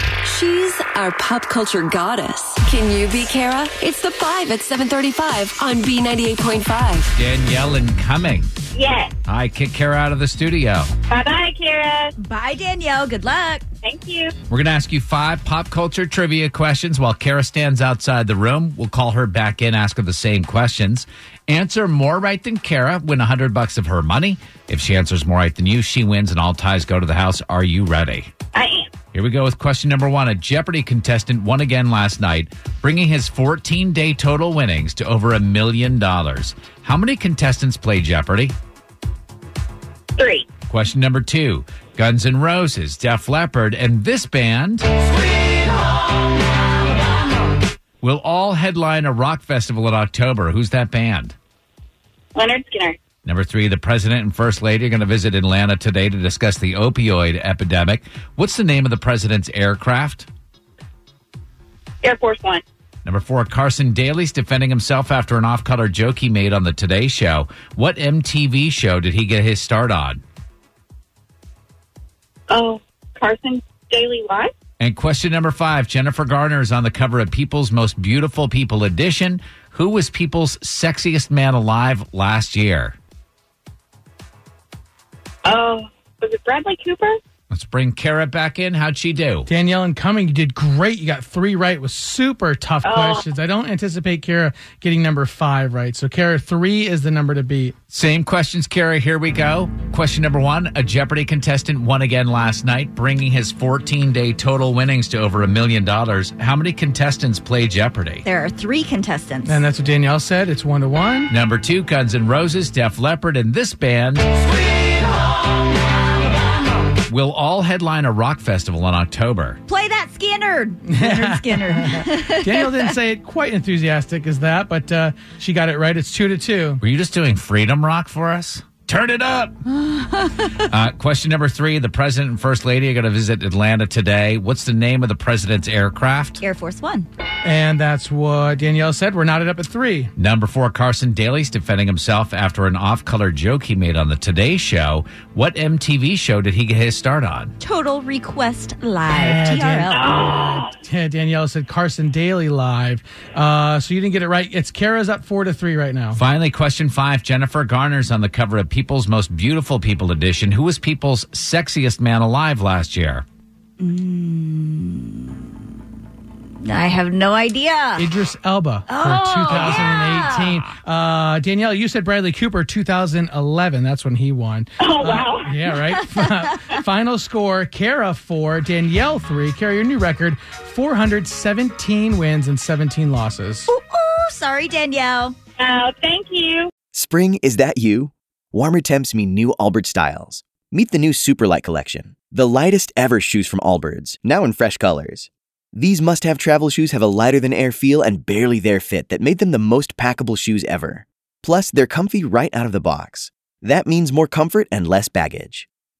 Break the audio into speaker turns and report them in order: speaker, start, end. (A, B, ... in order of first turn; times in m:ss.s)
0:00.2-0:07.1 A
0:07.1-0:08.5 B
0:08.7-0:09.1 C
0:09.2-0:10.9 B
0:11.1-0:12.1 C
0:12.2-0:13.6 D
0:13.8-0:14.3 C
0:14.5-0:28.3 B
0:28.5-0:28.9 C
0:29.1-0:38.5 B
0:40.2-0:40.4 C
0:40.7-0:44.9 B
0:48.0-0:51.3 B
0:52.3-0:53.0 C
0:53.2-1:00.3 B
1:02.0-1:02.6 C
1:03.0-1:10.2 B
1:12.5-1:14.5 C
1:14.8-1:23.0 B
1:25.4-1:27.2 C
1:27.5-1:29.5 B
1:29.5-1:37.7 E
1:32.8-1:33.2 C
1:37.9-1:48.2 B
1:48.2-1:49.6 D
1:49.4-1:51.3 E
1:51.3-1:54.4 B
1:57.0-1:59.6 B
1:59.7-2:02.9 D
2:00.8-2:06.8 E
2:06.8-2:09.5 B
2:09.7-2:10.4 D
2:10.4-2:16.4 B
2:16.4-2:17.1 D
2:17.4-2:20.1 E
2:20.2-2:27.5 B
2:27.6-2:30.0 D
2:29.1-2:36.2 E
2:29.9-2:30.7 C
2:36.1-2:43.2 B
2:43.8-2:45.5 D
2:46.6-2:48.1 D
2:48.0-3:03.7 E
2:48.9-2:50.7 D
2:54.8-2:55.5 C
2:55.8-2:56.6 D
3:03.7-3:05.3 D
3:05.6-3:06.7 C
3:06.9-3:25.7 F